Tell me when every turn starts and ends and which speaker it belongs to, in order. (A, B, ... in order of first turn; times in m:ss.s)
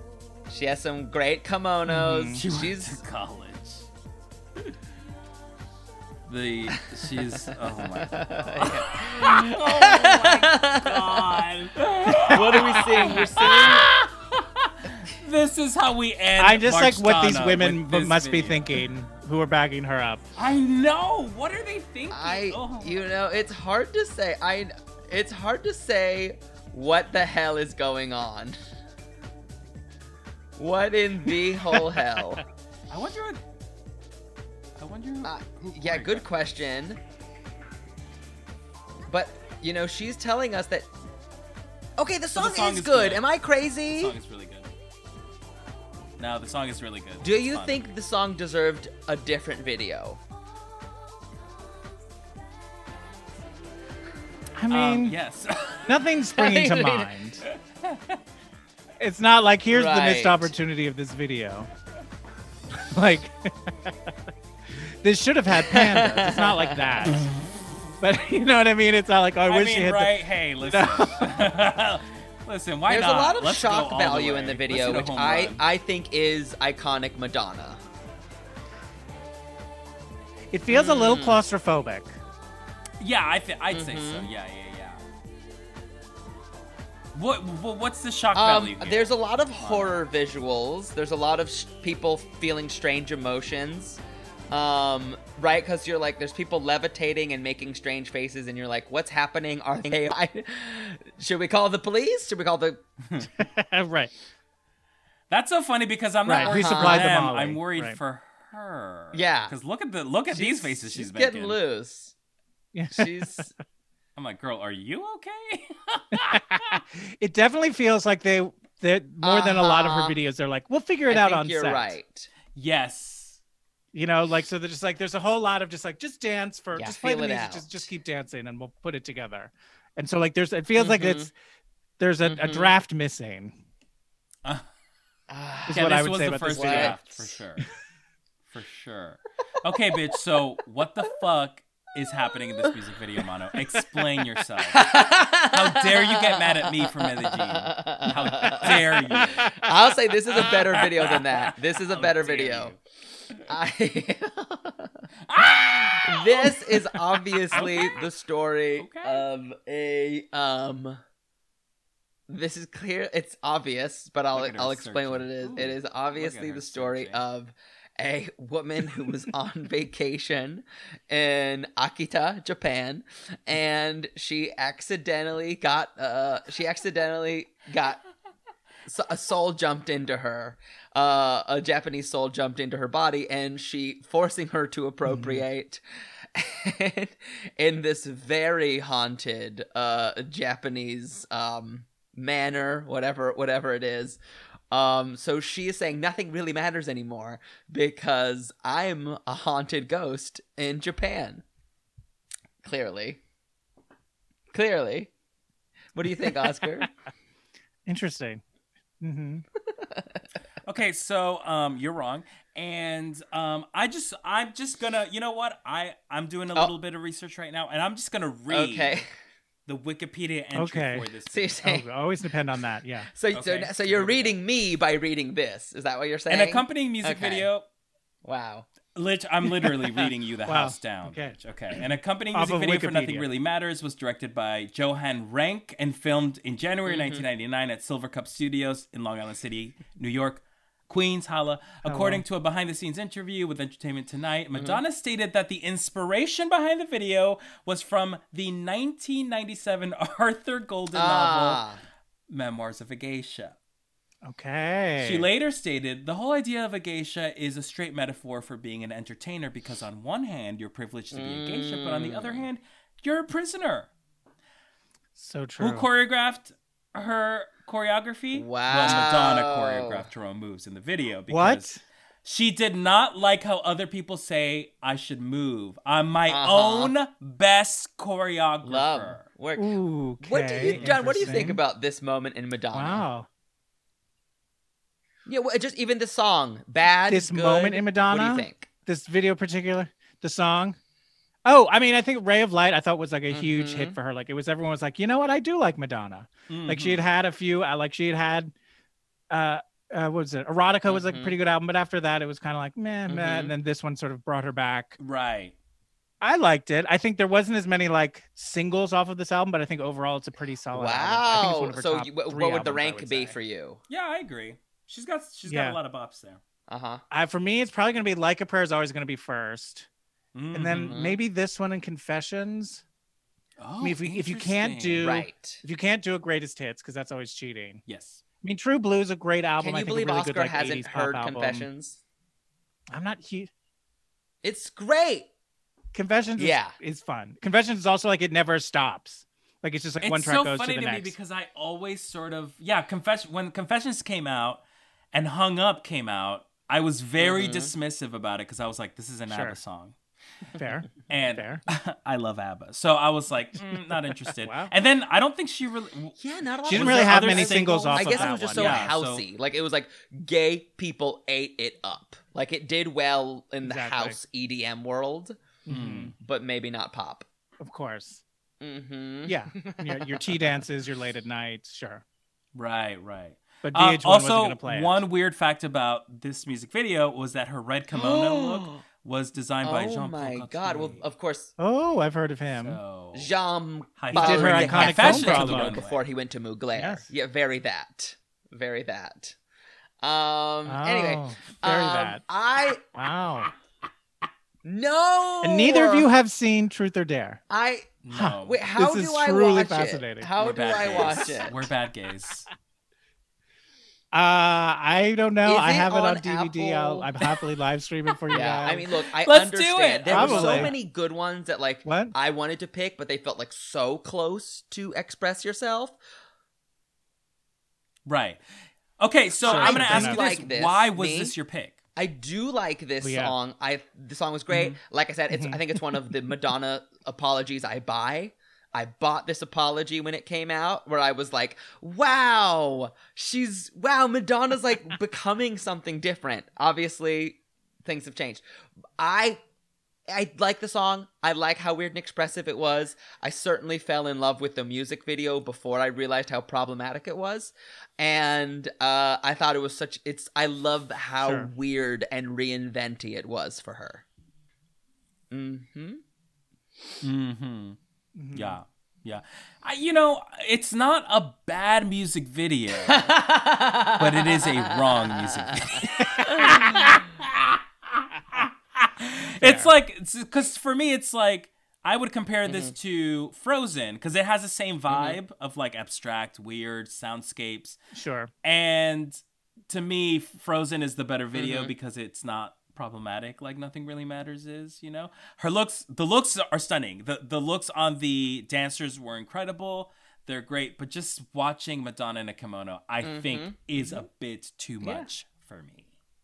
0:00.5-0:03.0 A
0:01.9-0:02.4 B
0:02.3-0:03.9 C
0:06.3-0:18.8 C
0:06.7-0:11.4 A
0:12.2-0:13.5 B
0:12.2-0:13.9 A
0:16.4-0:20.2 B
0:20.4-0:23.1 C
0:22.1-0:28.6 A
0:30.6-0:32.4 A
0:31.8-0:32.2 B
0:32.9-0:33.4 C
0:34.8-0:36.3 C
0:35.2-0:37.0 A
0:39.1-0:40.9 A
0:42.0-0:44.1 A
0:42.3-0:43.2 C
0:43.9-0:44.7 C
0:46.2-0:47.8 C
0:47.2-0:50.2 A
0:54.6-0:55.2 B
0:54.7-0:56.0 C
0:55.8-0:57.4 B
0:56.4-0:57.1 A
0:57.4-0:58.2 C
0:59.0-1:01.7 B
0:59.7-1:00.5 A
1:02.9-1:04.1 B
1:05.0-1:07.2 B
1:05.6-1:07.2 A
1:08.0-1:11.3 B
1:09.5-1:15.6 C
1:12.9-1:17.8 A
1:20.5-1:22.2 B
1:20.7-1:21.4 A
1:23.0-1:25.0 C
1:23.7-1:24.3 A
1:27.1-1:30.0 C
1:28.3-1:42.8 A
1:43.0-1:43.3 C
1:43.4-1:44.1 B
1:45.3-1:51.6 C
1:46.2-1:48.0 B
1:46.4-1:47.1 A
1:49.1-1:49.5 A
1:50.3-1:52.1 A
1:52.7-1:53.4 B
1:52.9-1:53.5 A
1:54.2-1:56.8 C
1:56.1-2:02.0 B
1:59.2-2:00.2 A
2:01.1-2:02.3 A
2:02.5-2:03.4 C
2:03.9-2:11.3 B
2:06.7-2:07.9 A
2:10.8-2:11.3 A
2:12.0-2:13.6 B
2:12.2-2:12.7 A
2:15.3-2:17.3 A
2:15.7-2:17.0 B
2:15.7-2:17.7 C
2:18.5-2:29.5 C
2:24.6-2:32.7 A
2:30.3-2:32.8 C
2:33.5-2:34.9 A
2:35.2-2:38.0 C
2:35.7-2:41.0 A
2:38.8-2:39.2 C
2:42.3-2:58.0 A
2:44.3-2:47.2 C
2:58.8-3:05.8 A
3:05.0-3:05.4 B
3:06.3-3:14.2 A
3:14.7-3:21.4 A
3:22.6-3:23.2 A
3:24.5-3:25.1 A
3:25.9-3:26.9 A
3:27.8-3:28.4 B
3:29.0-3:29.4 B
3:30.6-3:39.0 C
3:38.5-3:39.0 A
3:39.6-3:41.6 C
3:40.5-3:41.1 B
3:41.3-3:41.8 A
3:41.6-3:43.1 B
3:43.1-3:47.5 A
3:43.3-3:44.4 C
3:46.3-3:47.6 C
3:48.2-3:48.7 A
3:48.9-4:11.6 C
3:50.4-3:51.4 B
3:52.3-3:53.3 B
3:56.9-3:57.2 A
4:01.8-4:02.2 B
4:04.5-4:04.8 A
4:10.9-4:11.8 A
4:12.3-4:13.6 C
4:14.2-4:15.3 B
4:15.0-4:23.9 C
4:21.1-4:22.4 A
4:25.2-4:25.9 B
4:25.6-4:39.2 C
4:28.3-4:30.0 A
4:31.3-4:31.8 B
4:36.3-4:36.9 A
4:38.6-4:43.0 A
4:39.6-4:41.6 B
4:40.6-4:41.5 C
4:42.7-4:43.3 B
4:45.2-4:48.7 A
4:47.1-4:50.8 B
4:51.4-4:58.5 B
4:53.3-4:54.0 A
4:56.5-4:57.0 C
4:59.3-5:05.0 B
5:00.9-5:01.3 A
5:03.1-5:03.5 A
5:05.0-5:05.5 C
5:06.2-5:13.4 B
5:10.7-5:13.8 A
5:13.9-5:16.4 C
5:15.4-5:15.8 B
5:16.7-5:17.0 A
5:17.1-5:19.9 B
5:20.3-5:21.0 C
5:20.5-5:22.8 B
5:20.8-5:21.2 A
5:23.6-5:25.1 C
5:23.8-5:27.8 B
5:25.0-5:25.6 A
5:27.9-5:28.2 C
5:28.4-5:31.6 B
5:29.6-5:32.0 A
5:32.9-5:33.5 B
5:34.4-5:35.3 A
5:35.9-5:41.2 B
5:36.4-5:36.7 A
5:40.0-5:44.6 C
5:45.1-5:49.9 C
5:47.2-5:47.7 A
5:49.3-5:49.6 B
5:50.5-5:51.6 B
5:51.1-5:59.2 C
5:54.3-5:54.7 B
5:56.2-6:05.4 A
5:56.7-5:58.9 B
6:03.6-6:04.2 B
6:05.6-6:06.1 B
6:05.7-6:06.1 C
6:06.2-6:07.2 A
6:07.6-6:08.2 B
6:08.6-6:10.6 A
6:09.3-6:12.0 B
6:12.5-6:21.0 C
6:13.6-6:15.0 B
6:17.9-6:18.8 A
6:19.6-6:21.5 A
6:21.6-6:22.8 B
6:22.5-6:23.3 C
6:23.1-6:29.4 A
6:24.0-6:26.0 C
6:24.1-6:25.8 B
6:26.8-6:27.0 B
6:30.0-6:32.8 A
6:30.7-6:32.2 B
6:32.9-6:33.5 B
6:34.6-6:36.1 A
6:35.4-6:37.4 B
6:37.5-6:41.7 A
6:38.0-6:38.6 C
6:38.1-6:40.3 B
6:40.4-6:42.5 C
6:44.1-6:48.9 B
6:45.4-6:47.1 A
6:48.3-6:56.0 A
6:49.2-6:50.7 C
6:50.1-6:50.7 B
6:51.8-6:52.1 B
6:58.0-6:58.4 C
6:59.0-7:01.8 C
6:59.4-7:01.3 A
6:59.4-7:00.2 B
7:02.0-7:18.4 A
7:03.0-7:03.3 B
7:04.5-7:04.8 B
7:05.3-7:06.0 B
7:19.0-7:19.4 A
7:20.1-7:34.0 A
7:31.2-7:31.5 B
7:35.3-7:36.0 A
7:37.0-7:37.8 C
7:38.2-7:38.6 B
7:38.3-7:43.2 C
7:42.9-7:46.9 A
7:44.0-7:46.9 C
7:46.0-7:47.0 B
7:49.0-7:57.8 C
7:49.4-7:49.7 B
7:52.4-7:52.7 A
7:54.9-7:55.2 A
7:57.9-7:58.3 B
7:58.4-8:15.9 C
8:01.3-8:01.7 A
8:13.0-8:13.5 A
8:13.8-8:14.0 B
8:14.8-8:15.1 A